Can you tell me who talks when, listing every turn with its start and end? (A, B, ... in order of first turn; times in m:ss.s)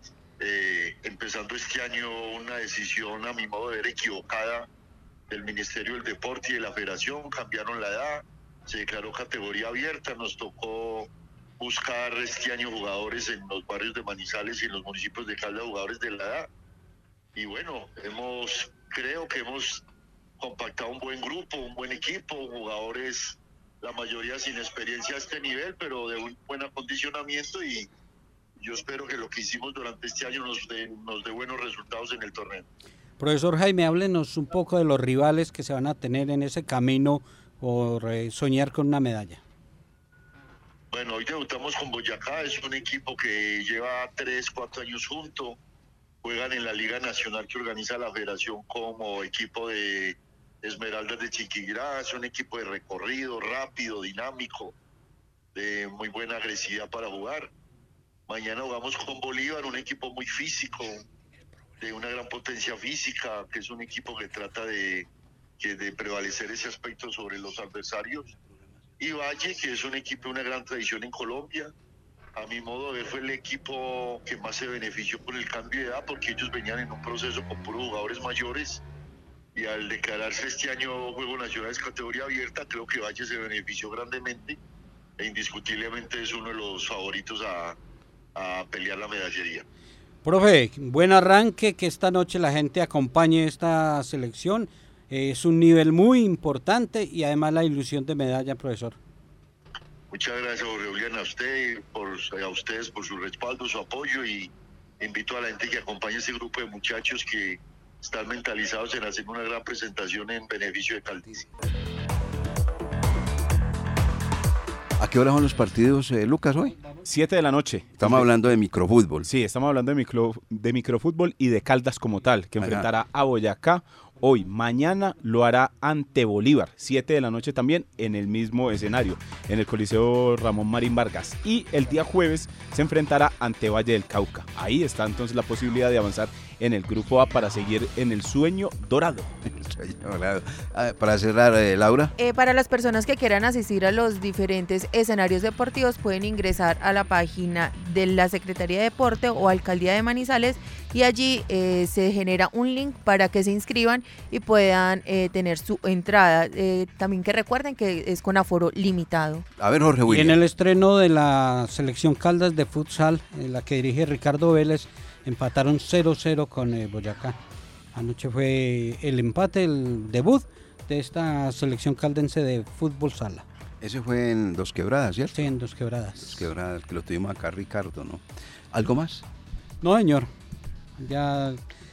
0:00.4-0:04.7 A
0:05.3-0:16.5 A
0:17.4-0:19.8 A
0:20.4-0:27.9 A
0:28.6-0:32.6 A
0:33.2-0:39.4 B
0:40.9-0:45.6 A
0:46.2-0:54.7 A
0:55.5-0:57.5 A
0:58.3-1:01.0 A
1:01.8-1:05.1 A
1:05.6-1:08.3 A
1:09.0-1:11.7 A
1:12.4-1:18.8 A
1:19.5-1:24.6 A
1:25.2-1:27.8 A
1:28.3-1:29.6 A
1:30.2-1:39.0 B
1:40.1-1:51.4 A
1:55.0-1:56.8 C
1:57.0-1:58.3 D
1:58.0-1:59.3 C
1:59.2-2:19.3 D
2:02.6-2:02.9 C
2:19.4-2:22.1 C
2:22.2-2:39.4 E
2:39.6-2:40.4 C
2:40.1-2:47.4 B
2:47.9-2:53.4 B
2:53.8-2:55.6 C
2:55.3-2:56.5 B
2:56.2-2:59.2 C
2:59.8-3:00.3 B
3:01.0-3:01.6 B